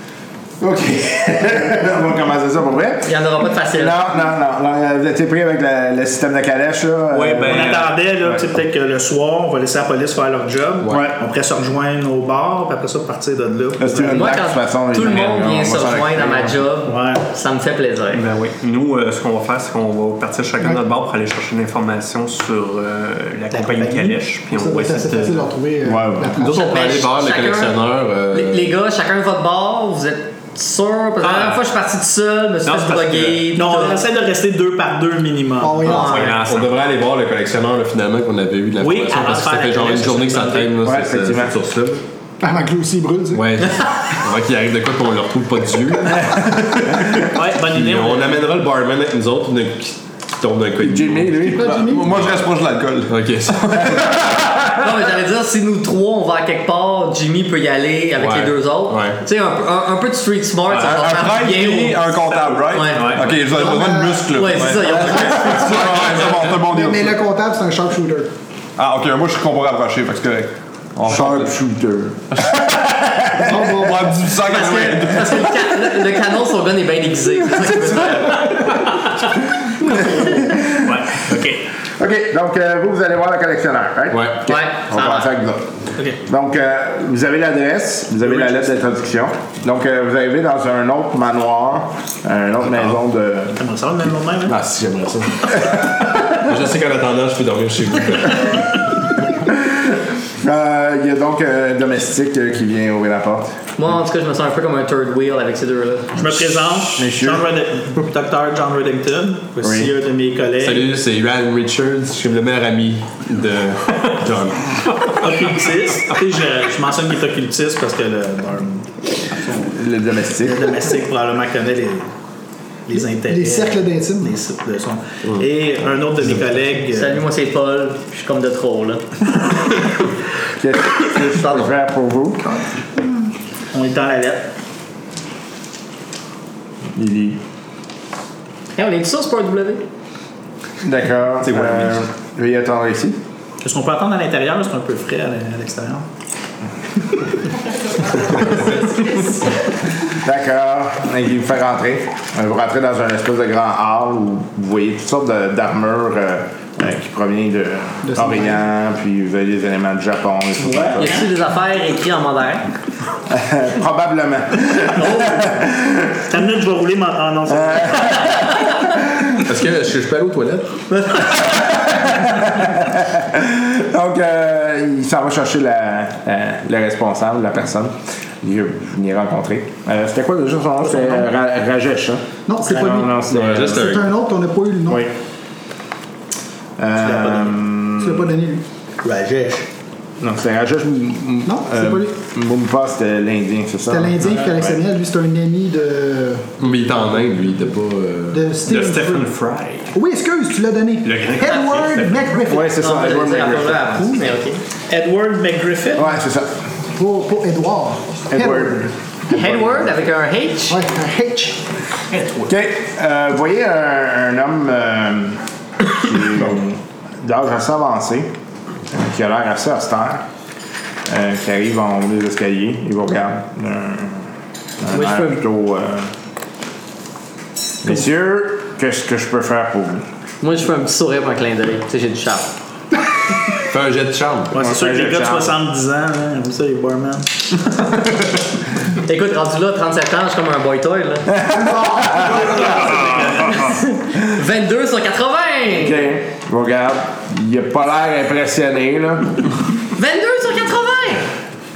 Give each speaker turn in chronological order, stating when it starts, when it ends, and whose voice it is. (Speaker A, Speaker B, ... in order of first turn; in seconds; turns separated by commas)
Speaker A: 0.6-8.4, Speaker B: 3.0-4.0, Speaker C: 7.2-7.9, Speaker D: 7.4-14.3, Speaker E: 10.8-11.1, Speaker A: 13.8-16.6, Speaker B: 14.1-18.2, Speaker D: 16.8-17.2, Speaker C: 18.1-25.5, Speaker D: 23.5-24.2, Speaker F: 24.5-26.6, Speaker A: 25.8-26.4, Speaker E: 26.4-28.8, Speaker B: 26.4-27.8, Speaker B: 28.3-34.0, Speaker C: 32.7-33.4, Speaker D: 33.5-36.2, Speaker F: 35.6-36.3, Speaker C: 35.8-36.7, Speaker B: 35.8-36.4, Speaker E: 36.2-42.0, Speaker D: 38.8-40.7, Speaker A: 40.8-41.5, Speaker F: 42.4-43.5, Speaker E: 43.3-46.4, Speaker D: 47.2-48.5, Speaker E: 47.6-51.5, Speaker A: 50.8-51.8, Speaker F: 51.5-52.1, Speaker G: 51.5-54.7, Speaker E: 52.1-52.5, Speaker E: 53.1-54.0, Speaker B: 54.7-66.3, Speaker E: 58.2-59.2, Speaker G: 60.7-67.2, Speaker C: 62.9-63.3, Speaker F: 63.5-64.2, Speaker F: 66.5-68.3, Speaker G: 68.8-71.6, Speaker A: 71.0-73.7, Speaker G: 72.3-72.8, Speaker F: 73.4-74.2, Speaker G: 73.6-75.5, Speaker B: 74.4-78.7, Speaker D: 79.8-81.6, Speaker A: 80.2-80.9, Speaker A: 82.0-93.6, Speaker E: 84.1-84.5, Speaker B: 84.5-85.3, Speaker D: 86.0-86.2, Speaker D: 88.2-88.7, Speaker D: 93.6-94.6, Speaker E: 94.4-98.6, Speaker A: 99.4-103.6, Speaker B: 103.8-106.2, Speaker D: 106.2-110.9, Speaker A: 106.3-107.5, Speaker A: 109.6-109.9, Speaker E: 110.6-114.8, Speaker D: 115.1-119.7, Speaker A: 119.6-120.8, Speaker D: 120.4-122.1, Speaker D: 122.9-127.2, Speaker F: 122.9-124.3, Speaker B: 126.9-129.0, Speaker A: 130.6-132.7, Speaker D: 133.7-134.5, Speaker A: 136.9-137.4, Speaker B: 138.8-139.8, Speaker A: 140.8-143.2, Speaker D: 143.6-146.1, Speaker D: 148.3-148.6, Speaker A: 150.0-161.2, Speaker F: 158.1-158.6, Speaker D: 160.7-161.0, Speaker B: 160.9-162.7, Speaker A: 163.3-166.2, Speaker D: 165.0-165.4, Speaker D: 166.3-168.5, Speaker A: 167.5-168.5, Speaker A: 169.1-169.3, Speaker E: 169.4-170.8, Speaker A: 171.4-184.0, Speaker F: 182.5-185.1, Speaker E: 183.3-184.1, Speaker A: 184.9-185.1, Speaker A: 186.8-188.4, Speaker D: 187.0-187.6, Speaker F: 188.0-188.6, Speaker D: 189.0-189.7, Speaker A: 190.2-194.8, Speaker F: 191.4-192.1, Speaker F: 193.9-196.5, Speaker E: 196.6-198.5, Speaker F: 198.3-199.3, Speaker C: 198.6-199.9, Speaker F: 199.9-202.7, Speaker C: 201.0-202.3, Speaker A: 202.4-204.1, Speaker B: 202.7-204.6, Speaker D: 204.9-206.2, Speaker A: 205.9-206.7, Speaker F: 206.9-209.6, Speaker A: 208.3-209.9, Speaker B: 209.3-210.8, Speaker F: 210.7-211.6, Speaker A: 212.5-218.3, Speaker A: 218.9-220.2, Speaker A: 221.1-226.1, Speaker B: 224.9-225.4, Speaker A: 227.8-230.1, Speaker B: 230.4-232.5, Speaker E: 233.7-234.5, Speaker D: 234.5-237.9, Speaker A: 234.5-235.5, Speaker B: 239.0-241.3, Speaker A: 241.3-242.5, Speaker F: 241.9-242.4, Speaker D: 242.2-243.8, Speaker B: 243.0-246.0, Speaker A: 245.7-249.5, Speaker B: 249.9-251.3